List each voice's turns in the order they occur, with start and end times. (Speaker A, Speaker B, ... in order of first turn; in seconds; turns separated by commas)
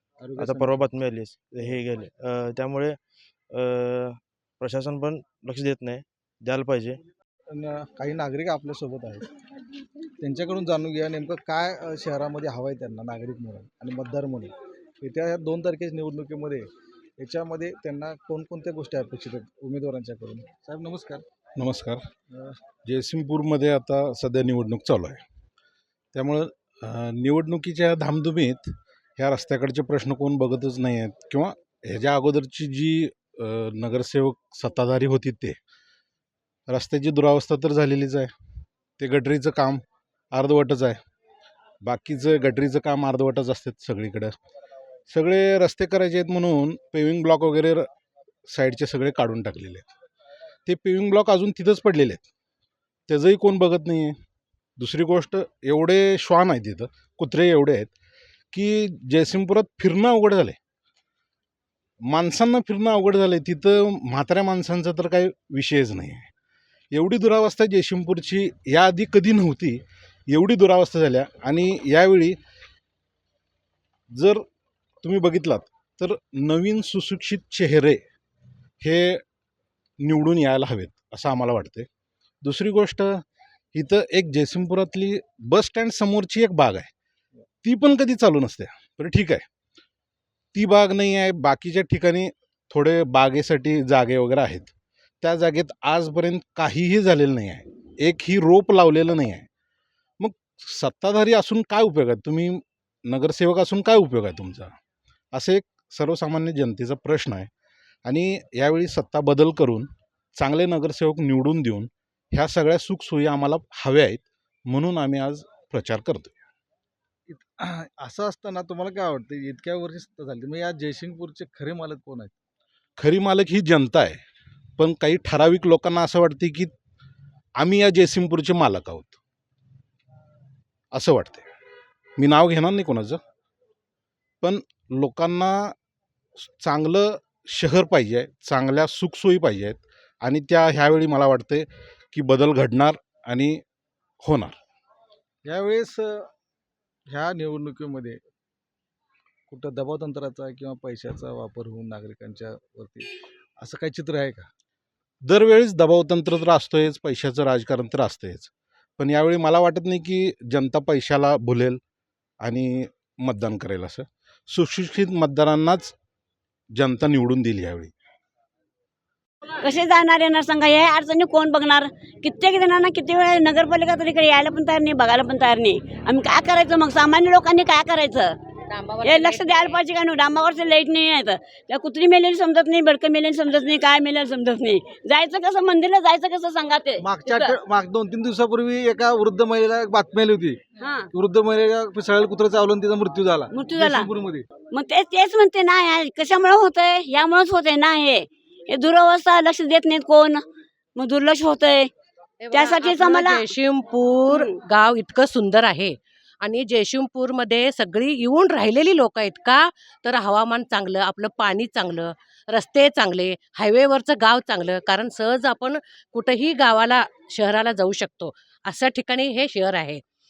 Speaker A: 0.2-1.0, Speaker B: 0.4-3.0, Speaker B: 3.5-7.0, Speaker A: 7.5-9.2, Speaker A: 10.2-16.7, Speaker A: 17.2-21.2, Speaker C: 21.6-22.0, Speaker C: 22.8-25.2, Speaker C: 26.1-35.6, Speaker C: 36.7-38.3, Speaker C: 39.0-39.8, Speaker C: 40.3-41.0, Speaker C: 41.8-44.3, Speaker C: 45.1-47.9, Speaker C: 48.5-49.9, Speaker C: 50.6-52.2, Speaker C: 53.1-54.1, Speaker C: 54.8-57.9, Speaker C: 58.5-60.6, Speaker C: 62.1-66.3, Speaker C: 66.9-72.4, Speaker C: 74.1-74.4, Speaker C: 75.0-78.0, Speaker C: 78.8-79.2, Speaker C: 80.0-81.9, Speaker C: 82.4-83.2, Speaker C: 83.7-86.9, Speaker C: 87.6-89.4, Speaker C: 90.5-99.5, Speaker C: 100.2-104.7, Speaker C: 105.3-107.5, Speaker C: 108.0-116.4, Speaker A: 117.3-122.4, Speaker C: 123.0-124.2, Speaker C: 124.8-126.7, Speaker C: 127.6-129.2, Speaker C: 130.9-131.4, Speaker C: 132.2-133.2, Speaker C: 134.4-135.7, Speaker C: 136.6-143.6, Speaker C: 144.2-144.6, Speaker A: 145.4-146.3, Speaker A: 147.1-148.2, Speaker A: 149.5-154.5, Speaker C: 155.2-161.8, Speaker C: 162.4-165.9, Speaker C: 166.8-167.9, Speaker D: 169.6-178.3, Speaker E: 178.7-179.8, Speaker D: 179.0-187.0, Speaker A: 187.0-194.5, Speaker D: 190.8-191.1, Speaker D: 193.5-193.8, Speaker D: 194.6-201.9, Speaker E: 202.4-220.0, Speaker D: 202.5-203.4